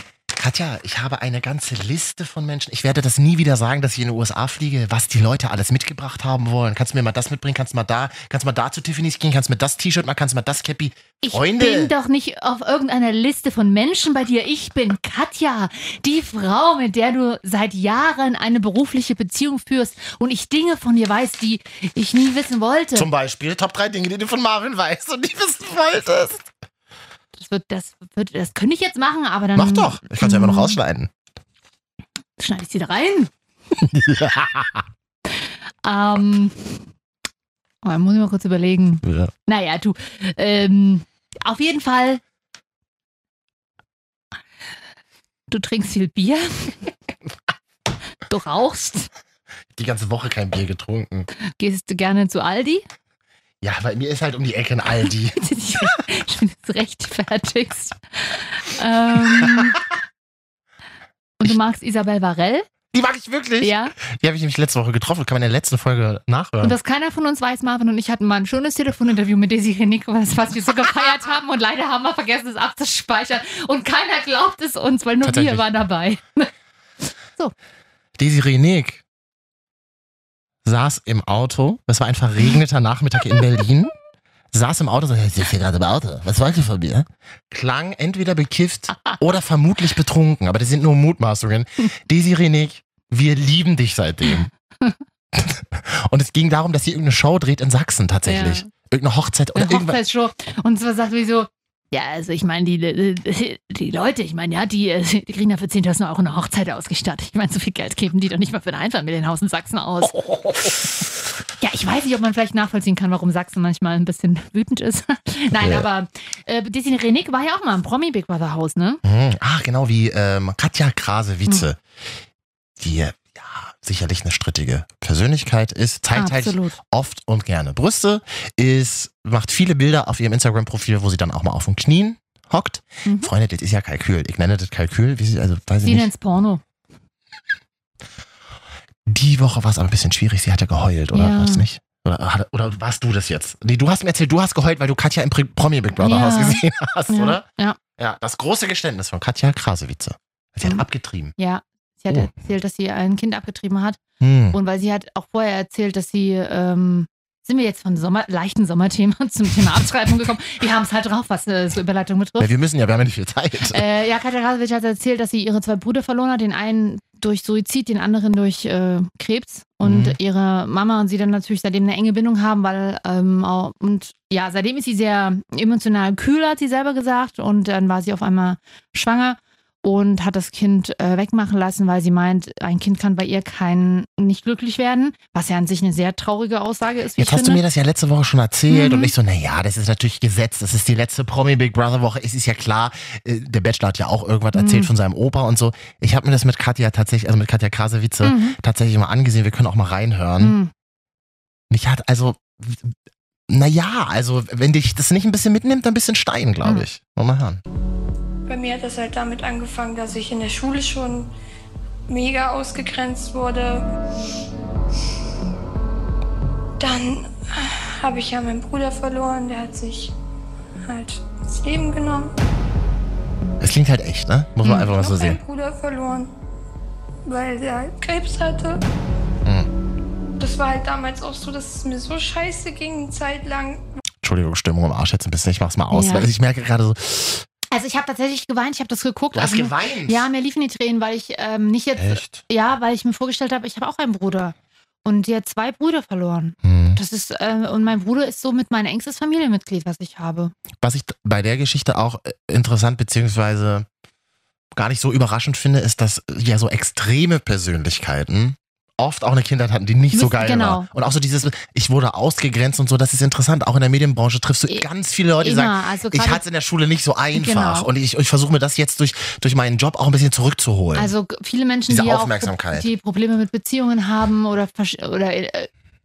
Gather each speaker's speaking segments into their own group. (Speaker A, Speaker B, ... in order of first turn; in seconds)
Speaker A: 0.3-11.9, 22.9-26.5, 29.6-31.1, 33.8-34.9, 39.0-39.3, 49.8-51.3, 53.6-55.4, 59.3-59.6, 62.9-66.8, 75.2-75.7, 78.2-79.0, 80.7-83.9, 84.5-94.5, 95.3-100.0, 110.2-110.7, 115.6-115.9, 119.0-121.8, 122.8-136.1, 139.1-147.4, 148.0-151.3, 154.2-154.6, 162.4-163.8, 169.8-170.2, 187.2-200.6, 201.7-202.9, 203.5-207.6, 223.6-225.4, 229.4-229.7, 234.2-237.5, 239.3-240.3, 242.0-242.4, 246.6-247.0, 250.8-253.9, 254.7-271.1, 271.9-272.9
Speaker B: 11.2-23.1, 27.4-30.8, 32.4-33.3, 35.3-36.8, 37.8-42.2, 45.5-46.9, 48.3-49.1, 51.6-52.9, 55.4-59.8, 61.4-62.7, 63.6-64.0, 66.6-76.5, 94.3-95.0, 98.3-98.7, 99.5-110.2, 111.6-119.0, 126.1-126.8, 133.1-133.3, 135.8-136.6, 141.1-141.7, 146.0-147.8, 151.4-154.0, 154.5-162.5, 163.7-187.6, 188.7-189.1, 194.5-194.9, 198.2-198.6, 200.4-200.7, 235.9-236.3, 237.7-250.5, 260.1-260.9, 265.4-266.4, 267.4-267.9, 270.9-275.7
Speaker C: 208.5-211.3, 212.1-213.9, 216.8-220.1, 220.8-222.3, 224.8-226.3, 227.3-228.8, 230.4-233.8